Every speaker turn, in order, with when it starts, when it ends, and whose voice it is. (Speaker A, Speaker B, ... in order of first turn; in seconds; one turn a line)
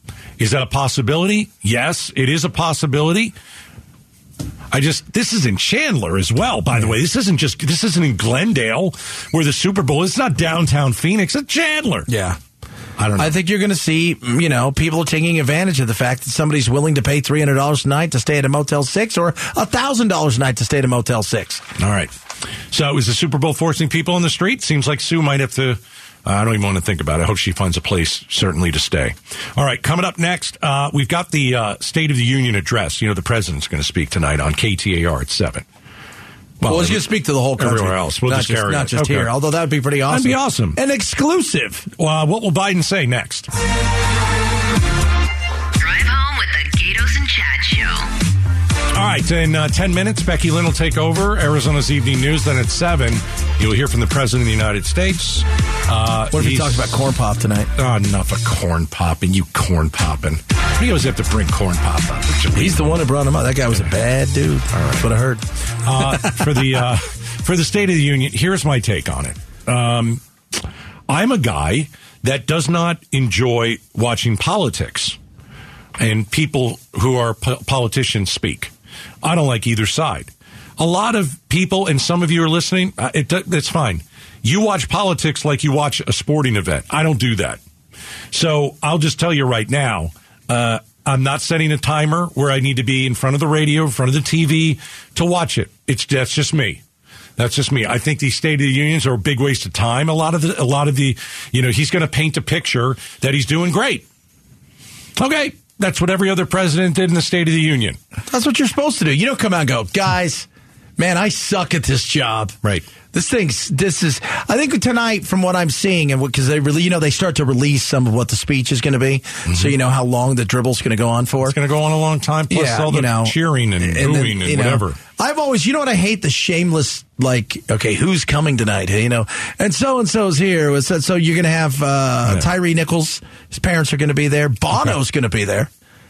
Speaker A: 0.4-3.3
Speaker A: 4.7-12.1
Speaker B: 12.1-12.4
Speaker A: 13.0-13.3
Speaker B: 13.2-21.6
Speaker A: 21.8-22.1
Speaker A: 22.7-35.6
Speaker A: 36.6-37.0
Speaker B: 36.6-41.9
Speaker A: 37.6-39.3
Speaker A: 40.1-40.8
Speaker A: 42.0-43.5
Speaker C: 45.8-48.0
Speaker A: 48.9-56.8
Speaker B: 56.3-57.7
Speaker A: 57.8-63.0
Speaker B: 62.5-65.4
Speaker A: 64.7-65.1
Speaker A: 65.8-70.2
Speaker A: 71.1-75.2
Speaker A: 76.0-78.7
Speaker A: 79.2-87.6
Speaker A: 88.3-96.8
Speaker A: 97.4-104.0
Speaker A: 105.2-108.0
Speaker B: 108.3-112.5
Speaker B: 113.1-121.6
Speaker A: 119.5-119.7
Speaker A: 121.4-125.0
Speaker B: 122.5-135.7